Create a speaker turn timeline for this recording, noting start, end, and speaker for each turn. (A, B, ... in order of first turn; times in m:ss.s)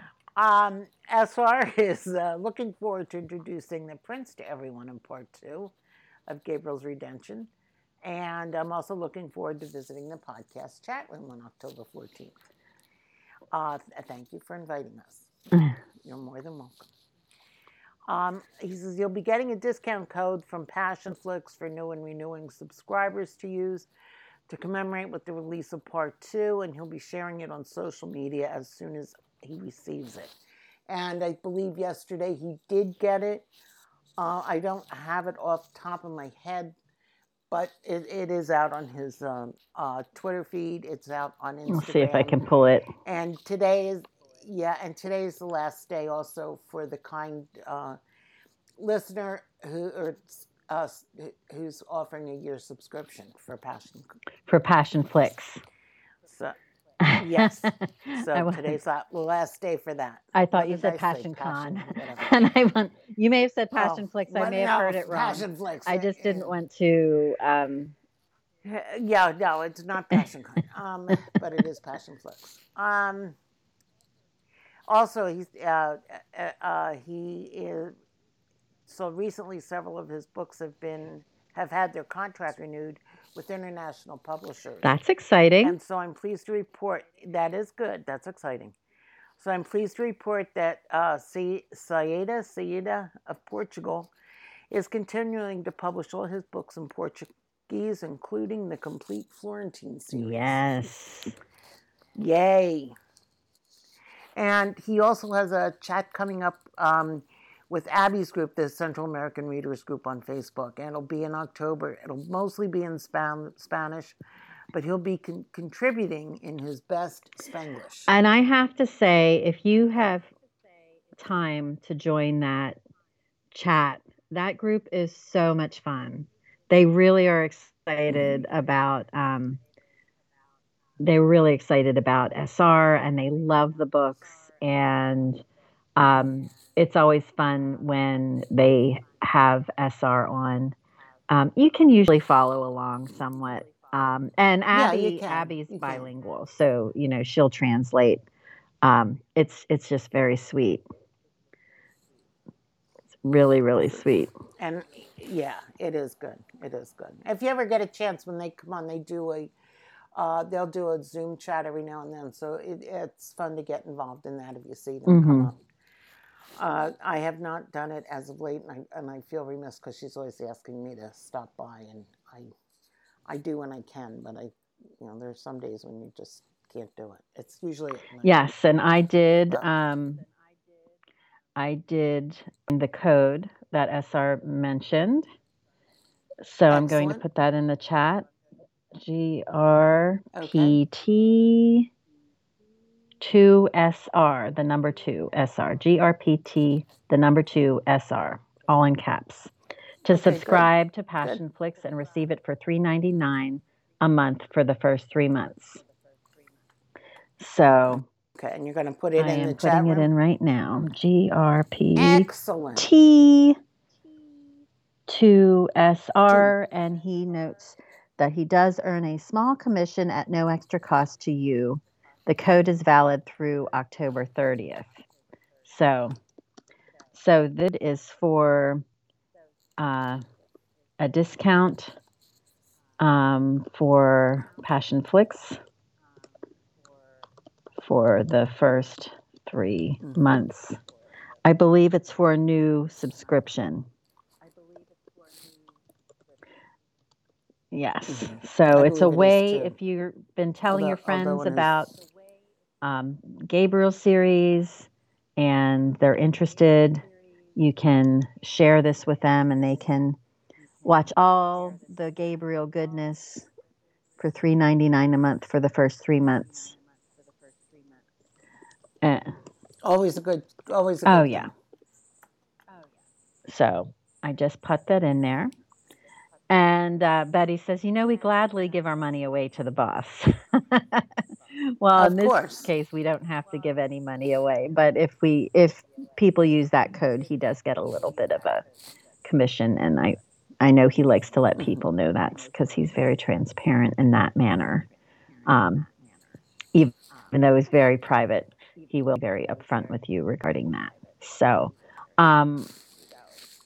0:00.3-0:05.7 A
0:06.3-0:07.5 A
0:08.0-0:12.4 A
0:13.5-0:15.3 A
0:16.0-0:16.9 A
0:18.1-0:23.9 A
0:24.5-0:30.3 A
0:30.9-0:33.5 A
0:34.2-0:36.8 A
0:37.5-0:42.4 A
0:41.7-0:42.9 B
0:43.0-0:48.0 A
0:48.8-0:54.1 A
0:54.5-0:55.6 B
0:56.3-0:56.6 A
0:57.0-0:58.8 B
0:57.1-1:02.4 A
1:00.3-1:07.9 B
1:03.7-1:06.5 A
1:08.6-1:13.4 A
1:14.9-1:17.9 A
1:18.8-1:24.9 A
1:24.8-1:25.8 B
1:25.6-1:28.8 A
1:29.4-1:34.1 A
1:34.7-1:40.6 A
1:40.1-1:41.4 B
1:42.2-1:42.9 A
1:44.4-1:54.2 A
1:54.7-1:58.1 A
1:58.1-2:00.3 B
2:01.2-2:02.8 B
2:03.5-2:09.6 B
2:08.1-2:08.4 A
2:11.0-2:15.4 B
2:16.0-2:20.8 B
2:21.3-2:28.2 B
2:24.7-2:26.1 A
2:28.8-2:30.8 B
2:33.2-2:34.3 B
2:34.6-2:39.5 A
2:40.1-2:45.6 A
2:45.1-2:45.5 B
2:46.6-2:52.5 A
2:53.3-2:58.4 A
2:58.2-3:00.2 B
3:01.6-3:05.3 B
3:06.4-3:08.2 B
3:06.7-3:07.2 A
3:09.0-3:11.9 B
3:10.3-3:10.8 A
3:13.2-3:19.5 B
3:20.0-3:25.8 B
3:20.1-3:20.7 A
3:27.4-3:28.0 B
3:28.4-3:30.1 A
3:29.2-3:33.6 B
3:32.0-3:32.9 A
3:35.1-3:45.0 B
3:36.3-3:36.5 A
3:45.6-3:46.2 B
3:47.1-3:48.8 B
3:49.8-3:50.2 B
3:51.0-3:52.0 B
3:53.0-3:55.6 B
3:57.8-4:00.8 B
4:01.4-4:03.9 B
4:07.7-4:11.9 B
4:08.1-4:09.7 A
4:10.7-4:11.7 A
4:12.8-4:17.0 B
4:17.6-4:20.2 B
4:20.8-4:23.5 B
4:24.2-4:26.7 B
4:29.0-4:29.3 B
4:29.8-4:31.5 A
4:31.0-4:31.5 B
4:33.5-4:35.5 B
4:36.5-4:48.6 B
4:41.9-4:42.7 A
4:49.2-4:54.9 B
4:55.4-4:55.8 B
4:56.7-5:02.7 B